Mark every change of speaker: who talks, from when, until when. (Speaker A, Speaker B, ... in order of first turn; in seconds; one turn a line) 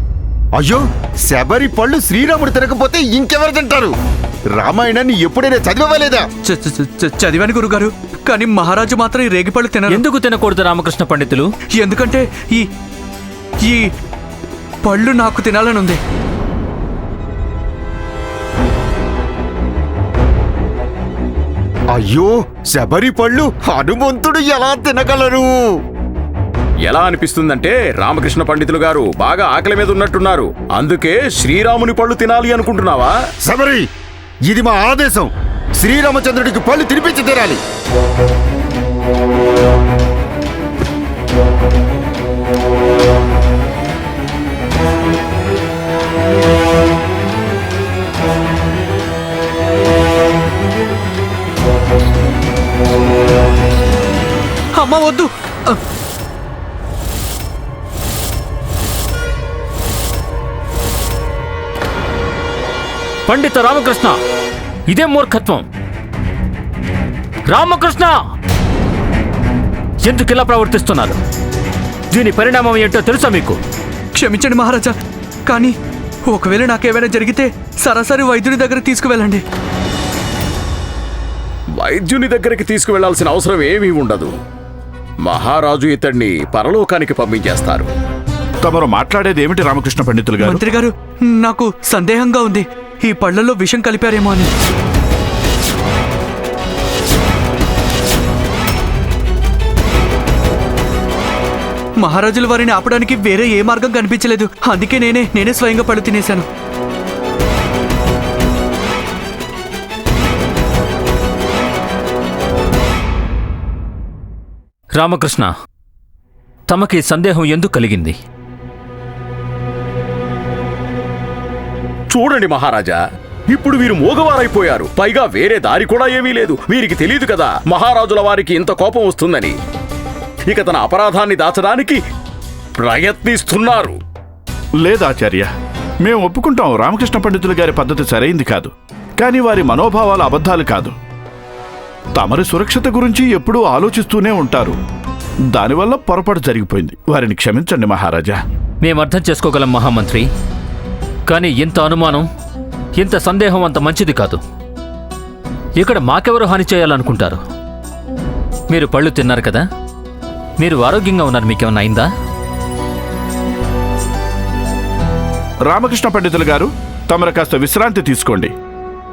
Speaker A: 0.6-3.9
Speaker A: 4.6-6.2
Speaker B: 6.4-10.0
Speaker C: 9.9-11.5
Speaker B: 11.8-12.7
Speaker B: 13.6-13.9
Speaker B: 14.8-16.0
Speaker A: 21.9-25.6
Speaker D: 26.9-33.1
Speaker A: 33.5-33.9
Speaker A: 34.5-37.6
Speaker B: 54.8-55.8
Speaker C: 63.3-64.2
Speaker C: 64.9-65.7
Speaker C: 67.5-68.2
Speaker C: 70.0-71.2
Speaker C: 72.1-73.6
Speaker B: 74.1-74.9
Speaker B: 75.5-75.8
Speaker B: 76.2-79.4
Speaker D: 81.8-84.4
Speaker D: 85.2-87.9
Speaker E: 88.6-90.6
Speaker B: 90.4-94.5
Speaker B: 102.0-106.5
Speaker C: 115.0-115.5
Speaker C: 116.7-118.2
Speaker D: 122.1-123.0
Speaker D: 123.5-129.5
Speaker D: 130.5-132.0
Speaker D: 132.8-134.0
Speaker E: 134.8-135.5
Speaker E: 136.0-140.9
Speaker E: 142.2-144.8
Speaker E: 145.5-148.4
Speaker C: 148.8-150.3
Speaker C: 151.3-152.3
Speaker C: 152.9-154.4
Speaker C: 155.8-157.4
Speaker C: 158.7-159.6
Speaker C: 160.6-162.1
Speaker E: 165.7-168.5